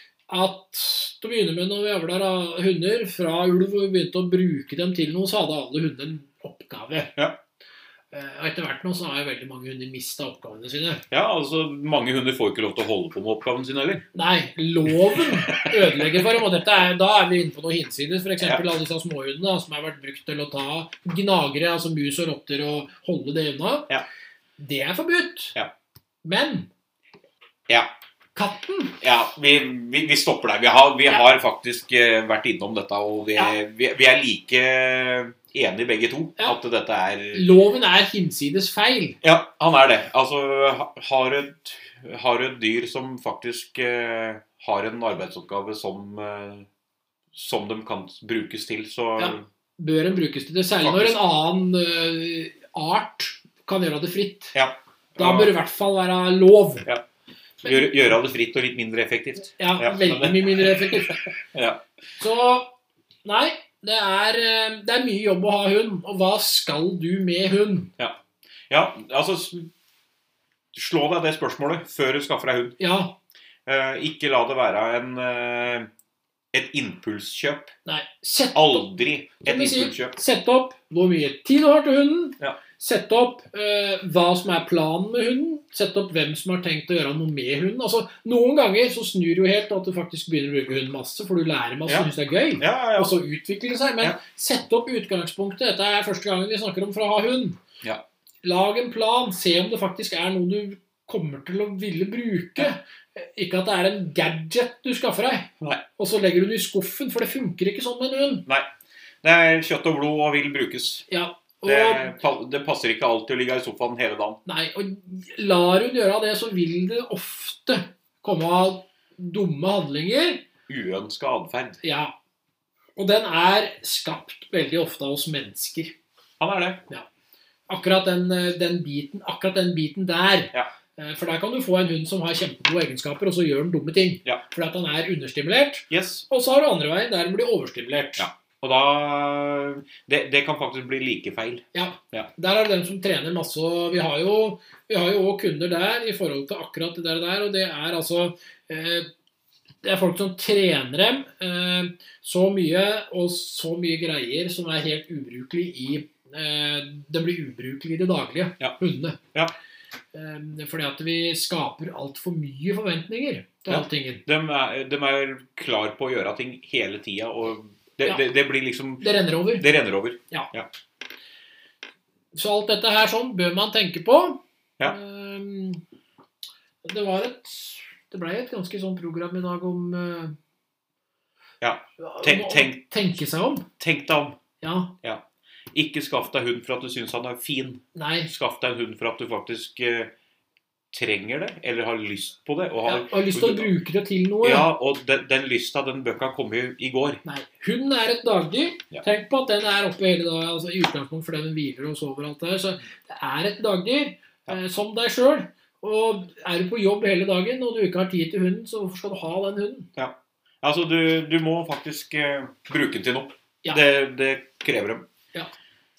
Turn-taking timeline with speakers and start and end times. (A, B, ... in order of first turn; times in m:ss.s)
0:00.3-0:07.1 A
0:08.1-0:11.0 A
0:11.1-0:14.0 B
0:14.1-0:23.9 A
0:14.9-0:16.2 B
0:24.6-0:25.6 A
0:26.2-0:26.7 A
0:28.4-0:29.0 A
0:29.0-0:37.4 B
0:37.3-0:39.2 A
0:39.2-0:46.7 B
0:47.3-0:49.5 B
0:49.2-0:54.6 A
0:50.8-0:51.2 B
0:54.5-0:55.5 B
0:55.2-0:56.9 A
0:57.6-1:01.8 B
0:59.6-1:01.2 A
1:02.2-1:02.7 A
1:03.2-1:07.9 A
1:08.7-1:09.7 B
1:10.7-1:12.8 B
1:12.8-1:13.1 A
1:13.7-1:15.9 B
1:16.5-1:17.7 B
1:17.9-1:18.9 A
1:18.5-1:20.2 B
1:19.4-1:37.6 A
1:31.9-1:33.1 B
1:38.4-1:48.4 A
1:49.2-1:51.1 B
1:51.1-1:52.2 A
1:51.6-1:54.4 B
1:54.5-2:00.4 A
2:00.7-2:01.8 B
2:01.8-2:02.1 A
2:03.0-2:06.0 A
2:06.4-2:06.8 B
2:07.7-2:18.3 A
2:15.9-2:16.2 B
2:18.2-2:22.3 B
2:21.7-2:29.1 A
2:29.8-2:39.2 A
2:40.1-2:44.2 A
2:43.7-2:50.7 B
2:49.0-2:49.7 A
2:52.3-2:55.8 A
2:56.8-3:00.4 A
3:01.6-3:02.8 B
3:02.0-3:03.7 A
3:03.8-3:04.4 B
3:04.6-3:05.0 A
3:05.7-3:10.1 B
3:08.0-3:08.3 A
3:10.9-3:13.7 B
3:12.9-3:14.7 A
3:14.4-3:17.2 B
3:17.2-3:29.9 A
3:30.0-3:35.1 B